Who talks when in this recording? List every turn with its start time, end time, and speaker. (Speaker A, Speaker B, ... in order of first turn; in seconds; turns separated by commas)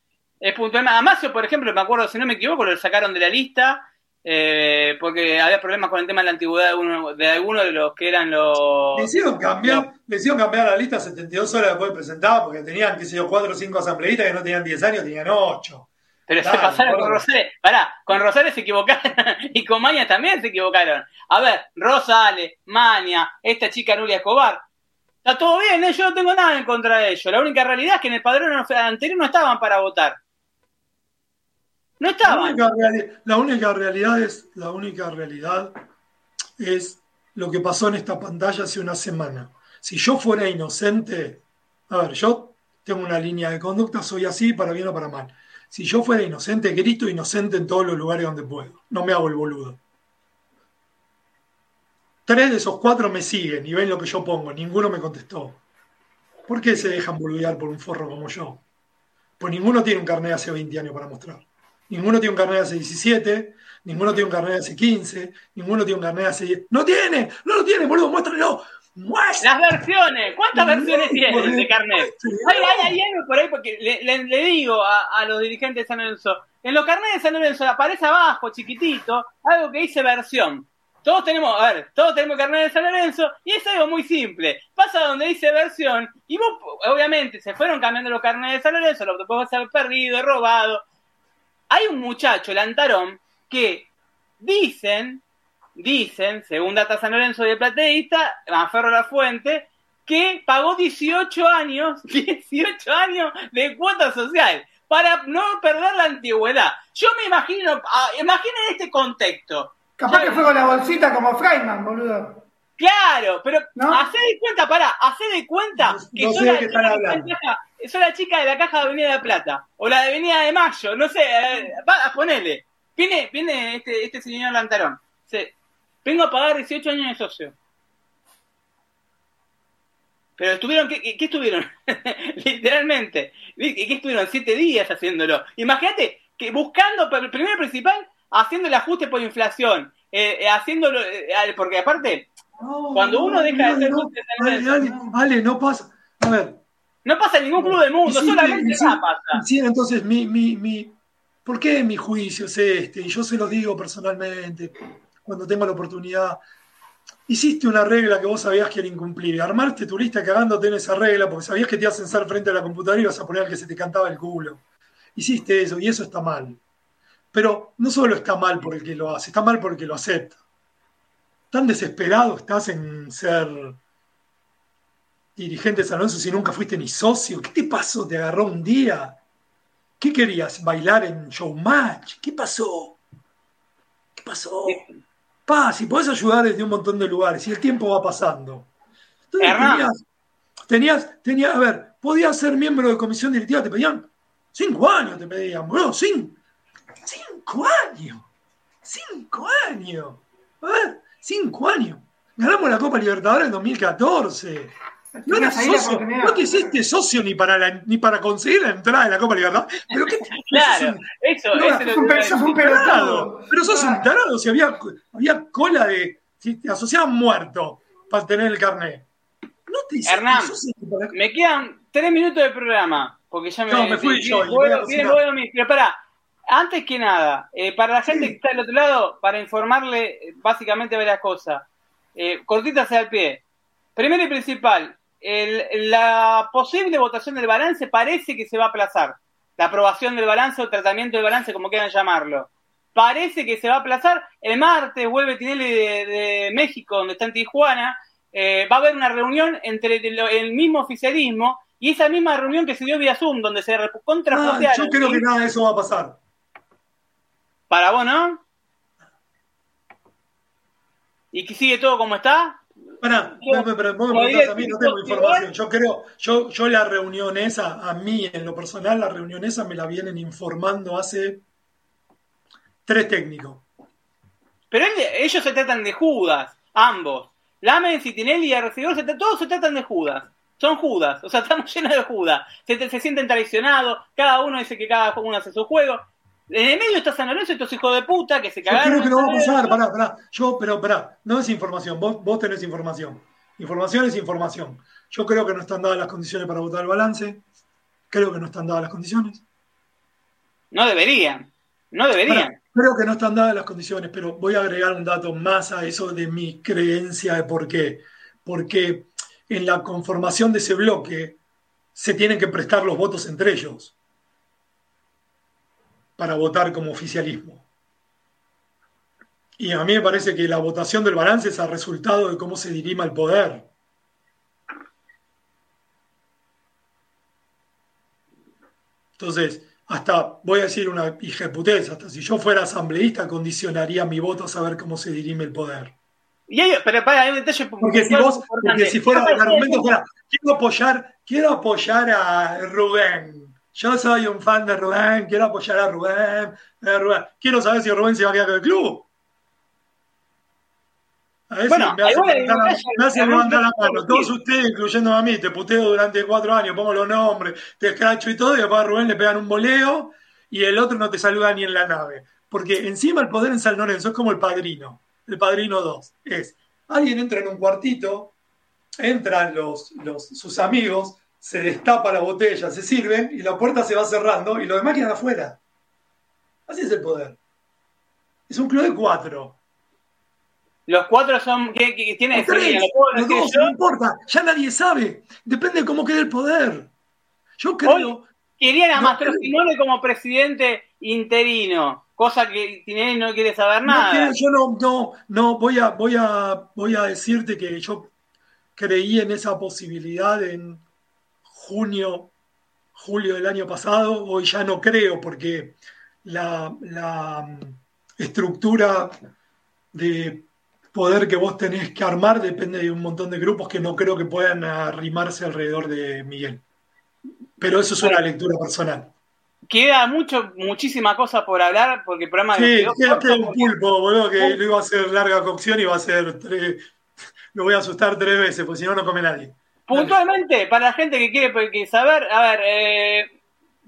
Speaker A: 0.4-9.1, Speaker B: 8.9-15.9, Speaker A: 9.6-9.9, Speaker A: 16.3-24.6, Speaker B: 16.4-17.2, Speaker A: 25.2-30.2, Speaker A: 32.0-32.7, Speaker B: 32.2-35.7, Speaker B: 36.6-49.8, Speaker B: 52.2-55.6, Speaker B: 56.5-58.6, Speaker B: 59.4-69.5, Speaker A: 69.4-90.8, Speaker B: 70.5-73.0, Speaker A: 91.7-93.9, Speaker A: 94.4-95.2, Speaker A: 95.8-110.4, Speaker C: 110.0-112.4, Speaker A: 112.8-127.5, Speaker C: 113.8-114.0, Speaker B: 115.8-117.3, Speaker A: 130.4-142.3, Speaker B: 142.6-146.6, Speaker A: 142.9-144.9, Speaker A: 147.0-149.4, Speaker B: 147.6-154.7, Speaker B: 155.2-156.4, Speaker B: 157.3-164.6, Speaker B: 165.1-166.6, Speaker B: 167.3-170.4, Speaker B: 171.5-173.8, Speaker B: 175.3-179.2, Speaker B: 180.0-183.0, Speaker B: 184.2-184.8, Speaker A: 184.7-184.9, Speaker B: 185.4-188.7, Speaker B: 189.3-190.0, Speaker A: 189.4-189.9, Speaker B: 190.7-196.4, Speaker B: 197.0-198.2, Speaker B: 198.8-204.7, Speaker C: 205.2-206.5, Speaker B: 205.3-219.1, Speaker A: 210.4-212.5, Speaker C: 211.7-214.0, Speaker B: 219.7-221.2, Speaker A: 220.0-220.6, Speaker A: 221.1-233.4, Speaker B: 223.7-225.2, Speaker B: 228.1-228.4, Speaker A: 233.9-255.2, Speaker B: 254.3-256.2, Speaker A: 257.7-258.4, Speaker A: 261.3-262.6, Speaker B: 263.0-271.4, Speaker A: 263.2-265.5, Speaker B: 272.9-273.6, Speaker A: 274.7-289.8, Speaker B: 288.6-297.4, Speaker B: 298.1-299.4, Speaker A: 300.7-302.5, Speaker B: 302.2-311.4, Speaker B: 311.9-313.9, Speaker B: 316.2-317.6, Speaker B: 319.6-323.7, Speaker B: 329.2-335.9, Speaker A: 336.5-339.9, Speaker B: 337.8-349.1, Speaker B: 351.5-368.3, Speaker A: 351.7-354.3, Speaker B: 369.0-375.6, Speaker B: 376.7-377.4, Speaker B: 378.5-379.6, Speaker A: 380.9-383.7, Speaker B: 382.3-386.9, Speaker B: 387.6-388.3, Speaker A: 387.8-394.3, Speaker B: 388.9-389.5, Speaker B: 393.9-398.1, Speaker B: 398.8-400.8, Speaker B: 401.5-402.3, Speaker B: 402.9-409.1, Speaker B: 409.9-416.6, Speaker B: 417.6-419.1, Speaker A: 419.7-423.7, Speaker B: 422.5-426.8, Speaker B: 427.5-430.2, Speaker A: 429.9-433.3